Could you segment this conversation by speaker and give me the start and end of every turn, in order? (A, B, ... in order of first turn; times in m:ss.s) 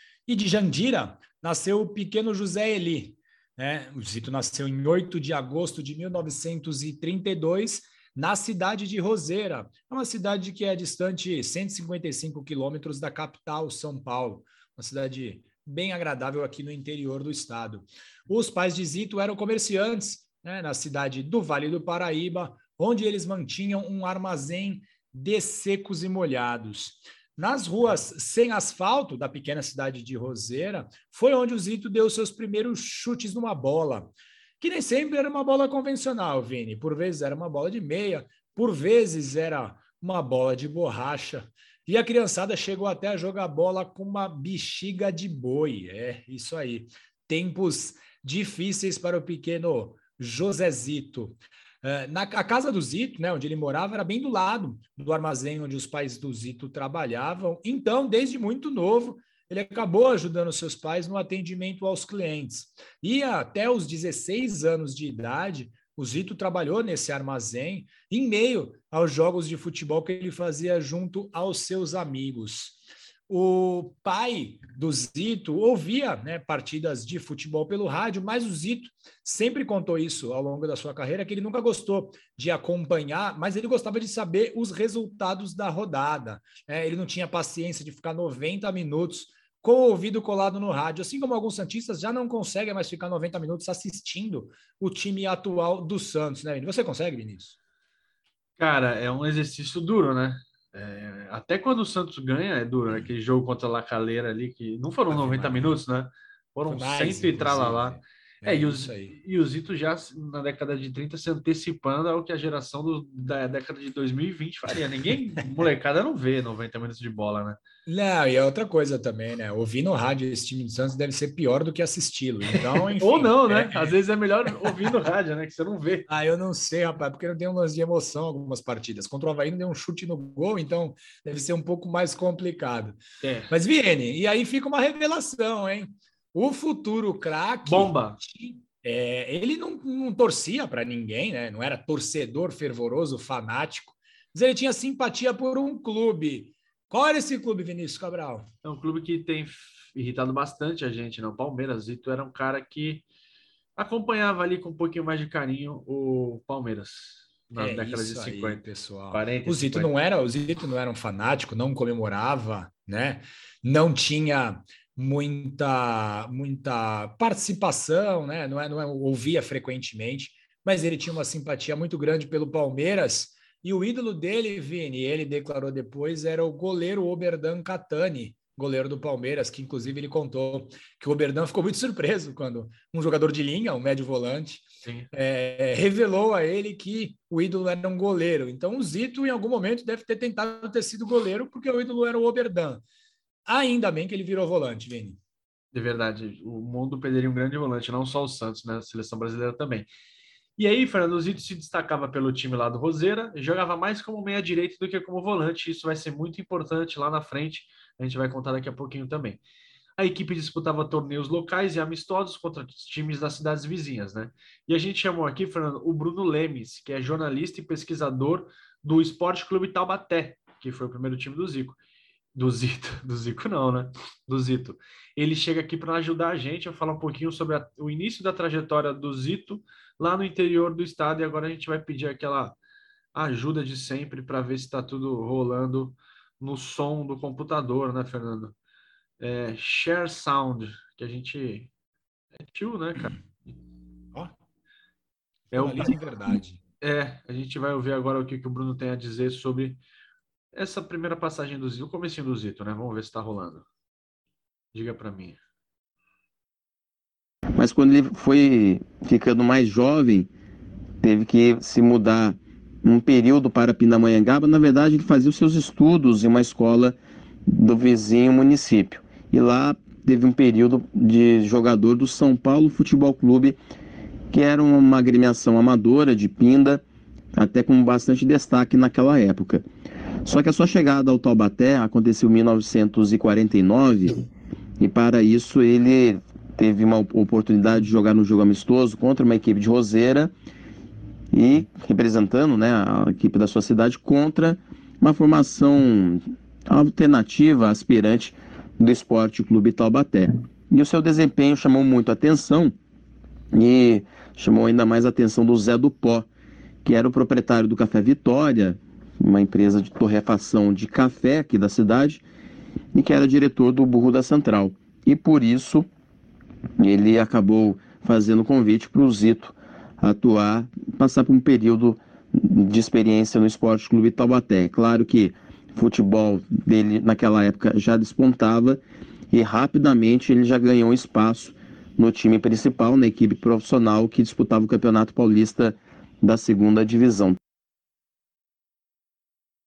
0:00.3-1:37.6 A
1:38.6-1:57.6 B
1:45.1-1:45.7 A
1:46.7-1:49.2 A
1:57.9-2:04.0 A
2:02.6-2:06.1 B
2:04.5-2:04.9 A
2:06.1-2:13.0 A
2:13.2-2:13.5 B
2:13.5-2:28.5 A
2:17.6-2:18.2 B
2:28.6-2:33.0 B
2:33.8-2:39.9 B
2:37.6-3:12.8 A
3:04.8-3:05.1 B
3:13.4-3:15.2 A
3:15.7-3:19.9 B
3:20.6-3:29.4 B
3:30.0-3:41.8 B
3:42.4-3:52.6 B
3:53.1-3:58.5 B
3:59.2-4:01.7 B
4:02.4-4:03.2 B
4:05.5-4:06.0 B
4:05.5-4:06.6 A
4:06.8-4:09.8 B
4:10.5-4:13.6 B
4:14.7-4:15.4 B
4:17.6-4:20.3 C
4:21.0-4:27.0 C
4:27.5-4:33.6 C
4:34.3-4:36.8 C
4:37.4-4:39.6 C
4:40.2-4:44.2 C
4:44.8-4:50.3 C
4:51.3-5:02.7 C
5:03.5-5:06.3 C
5:06.8-5:12.2 C
5:12.9-5:15.9 C
5:16.8-5:28.8 C
5:29.3-5:37.4 C